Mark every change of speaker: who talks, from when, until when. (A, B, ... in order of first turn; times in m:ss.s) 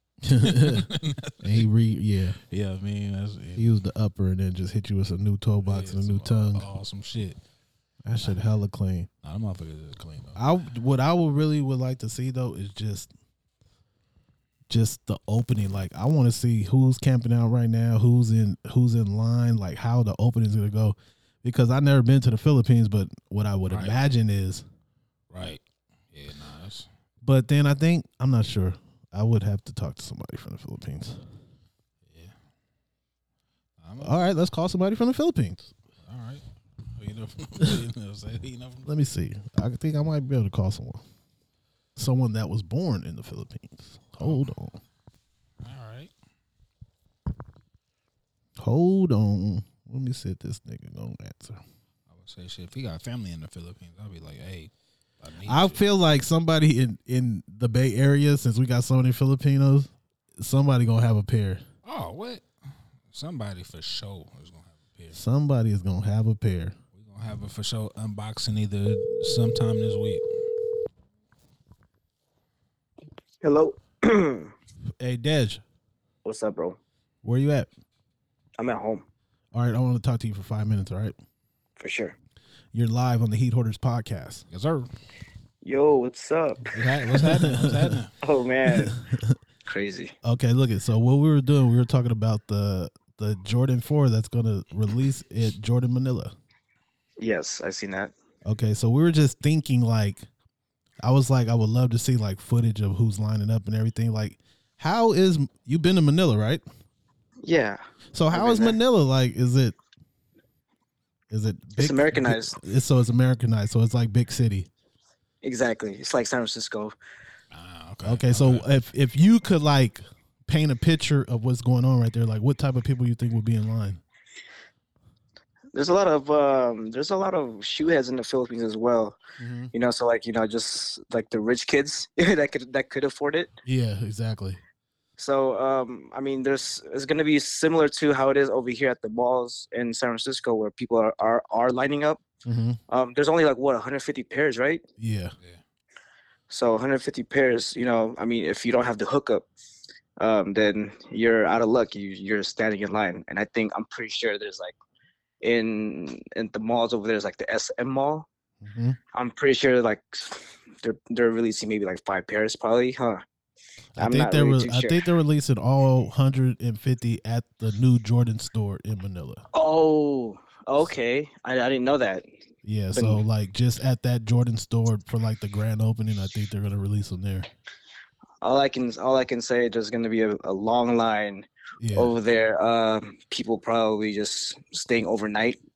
0:00.2-0:00.9 A
0:00.4-0:01.6 B
0:01.4-0:02.4 A
0:02.4-0:03.7 B
0:03.6-0:06.6 A
0:05.6-0:07.4 B
0:08.0-0:09.1 A
0:09.2-0:10.4 B
0:10.3-0:13.1 A
0:14.7-0:24.6 A
0:23.7-0:24.0 B
0:25.3-0:26.9 B
0:27.2-0:31.2 A
0:32.1-0:32.4 B
0:33.8-0:34.2 B
0:34.0-0:35.7 A
0:36.0-0:38.9 B
0:38.8-0:41.0 A
0:42.0-0:44.8 A
0:44.2-0:44.5 B
0:45.6-0:46.1 B
0:48.6-0:51.6 A
0:52.1-0:55.8 B
0:55.4-1:01.6 A
1:01.8-1:02.4 B
1:03.1-1:05.2 B
1:05.1-1:06.8 A
1:06.9-1:10.4 B
1:13.4-1:14.5 C
1:15.0-1:15.6 A
1:16.2-1:16.8 C
1:17.2-1:17.7 A
1:18.6-1:19.0 C
1:19.5-1:21.1 A
1:21.8-1:22.2 C
1:22.7-1:24.4 A
1:24.5-1:24.9 B
1:25.6-1:26.7 C
1:26.7-1:28.1 B
1:27.1-1:28.0 A
1:28.2-1:28.9 C
1:28.7-1:29.4 A
1:29.6-1:30.1 C
1:30.2-1:36.3 A
1:37.2-1:38.1 C
1:38.4-1:40.2 A
1:41.0-1:46.6 A
1:47.4-1:48.8 C
1:48.1-1:49.8 A
1:51.3-1:54.7 A
1:51.8-1:52.6 C
1:55.4-1:57.0 C
1:57.5-1:58.7 B
1:58.0-2:04.0 A
2:05.7-2:09.2 C
2:09.4-2:09.7 A
2:09.7-2:13.5 C
2:13.6-2:14.6 A
2:15.2-2:22.2 C
2:22.4-2:22.8 A
2:22.9-2:24.8 C
2:25.0-2:25.3 A
2:26.5-2:29.4 C
2:30.2-2:34.7 C
2:35.4-2:38.3 C
2:38.6-2:39.0 A
2:39.1-2:43.2 C
2:44.0-2:49.4 A
2:44.0-2:45.0 C
2:49.5-2:52.2 C
2:52.6-2:57.5 A
2:52.9-2:53.2 C
2:58.4-3:05.6 C
3:01.8-3:02.1 A